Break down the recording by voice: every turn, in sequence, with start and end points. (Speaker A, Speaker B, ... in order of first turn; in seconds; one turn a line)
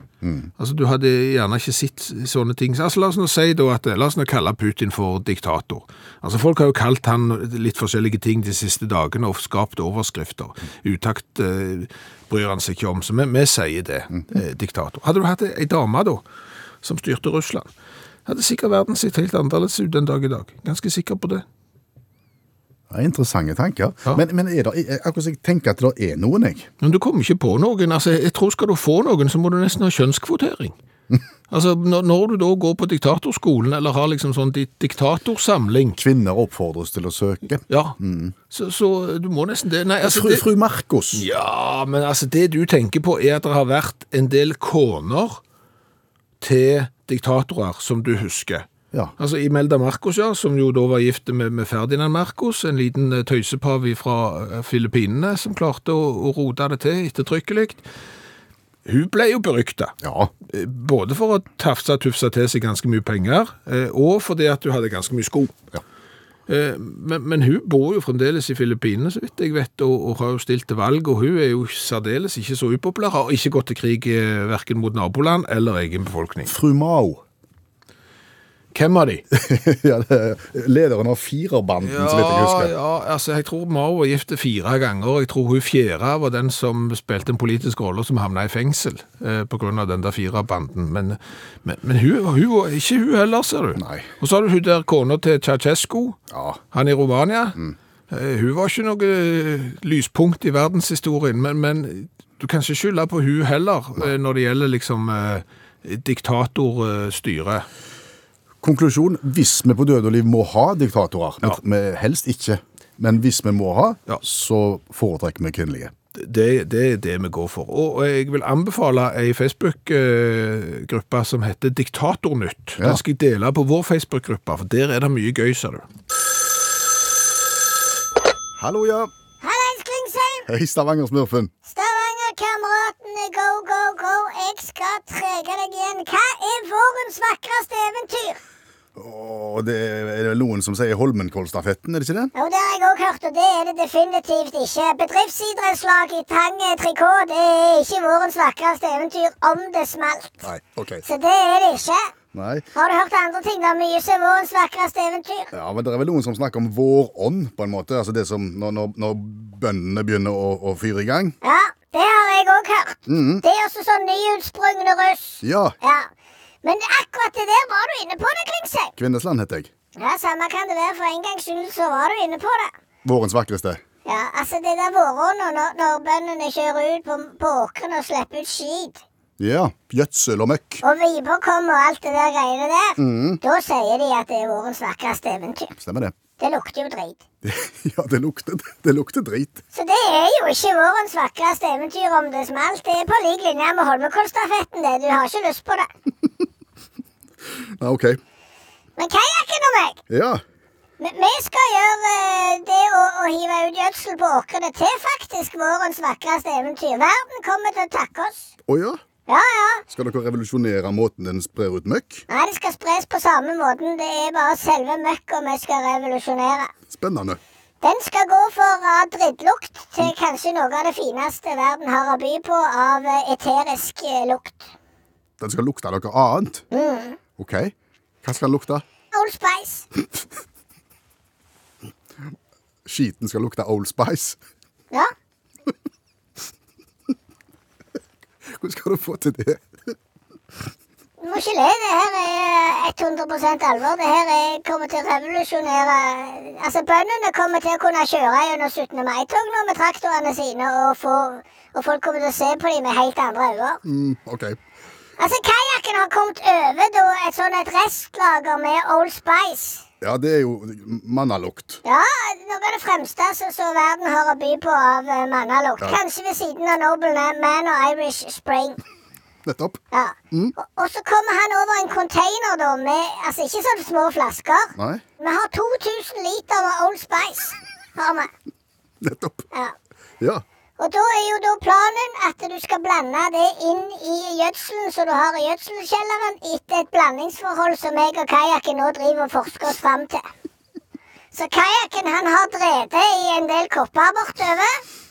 Speaker A: 0.2-0.5
Speaker B: 0.6-16.2
Speaker B: 16.8-17.7
Speaker B: 18.2-21.4
Speaker A: 22.9-26.7
Speaker B: 26.8-30.8
Speaker B: 31.5-36.0
Speaker A: 36.0-38.3
Speaker B: 37.7-38.0
Speaker B: 38.5-40.5
Speaker A: 40.0-41.2
Speaker B: 41.1-45.4
Speaker B: 46.4-57.8
Speaker B: 58.9-59.9
Speaker A: 60.0-60.3
Speaker B: 60.5-65.5
Speaker B: 66.5-76.5
Speaker A: 76.5-77.2
Speaker B: 78.7-79.2
Speaker A: 79.3-82.7
Speaker B: 81.8-96.2
Speaker A: 93.8-94.1
Speaker A: 96.3-96.6
Speaker B: 96.7-97.6
Speaker B: 98.1-107.7
Speaker A: 108.6-115.9
Speaker B: 116.2-125.8
Speaker A: 128.6-129.1
Speaker C: 129.4-130.5
Speaker A: 130.5-131.5
Speaker C: 131.7-138.4
Speaker A: 138.9-142.3
Speaker C: 142.3-150.4
Speaker A: 150.4-151.0
Speaker C: 151.0-152.0
Speaker A: 152.3-152.7
Speaker C: 152.7-155.5
Speaker A: 155.5-161.4
Speaker C: 161.4-166.1
Speaker A: 163.1-163.4
Speaker A: 165.4-165.8
Speaker C: 166.6-168.9
Speaker A: 169.0-169.7
Speaker C: 170.0-172.7
Speaker A: 173.0-173.8
Speaker C: 174.1-179.0
Speaker A: 179.4-180.8
Speaker C: 180.8-185.7
Speaker A: 183.0-183.4
Speaker A: 185.8-186.1
Speaker C: 186.4-187.2
Speaker A: 187.4-189.6
Speaker C: 189.7-195.9
Speaker A: 197.5-198.2
Speaker C: 199.0-200.0
Speaker A: 200.1-200.4
Speaker C: 201.0-208.5
Speaker A: 208.7-209.0
Speaker C: 209.3-209.8
Speaker A: 209.9-212.2
Speaker C: 212.3-216.7
Speaker A: 216.9-217.4
Speaker C: 217.8-224.7
Speaker A: 225.4-226.7
Speaker C: 226.7-227.2
Speaker A: 227.4-228.8
Speaker C: 229.1-229.8
Speaker A: 232.8-234.4
Speaker A: 238.4-239.9
Speaker C: 241.2-253.8
Speaker A: 253.8-254.6
Speaker C: 255.2-259.8
Speaker A: 260.0-261.8
Speaker C: 261.8-268.8
Speaker A: 269.4-269.8
Speaker C: 269.9-278.3
Speaker A: 274.8-275.0
Speaker A: 279.0-279.5
Speaker C: 280.8-290.2
Speaker C: 291.3-294.8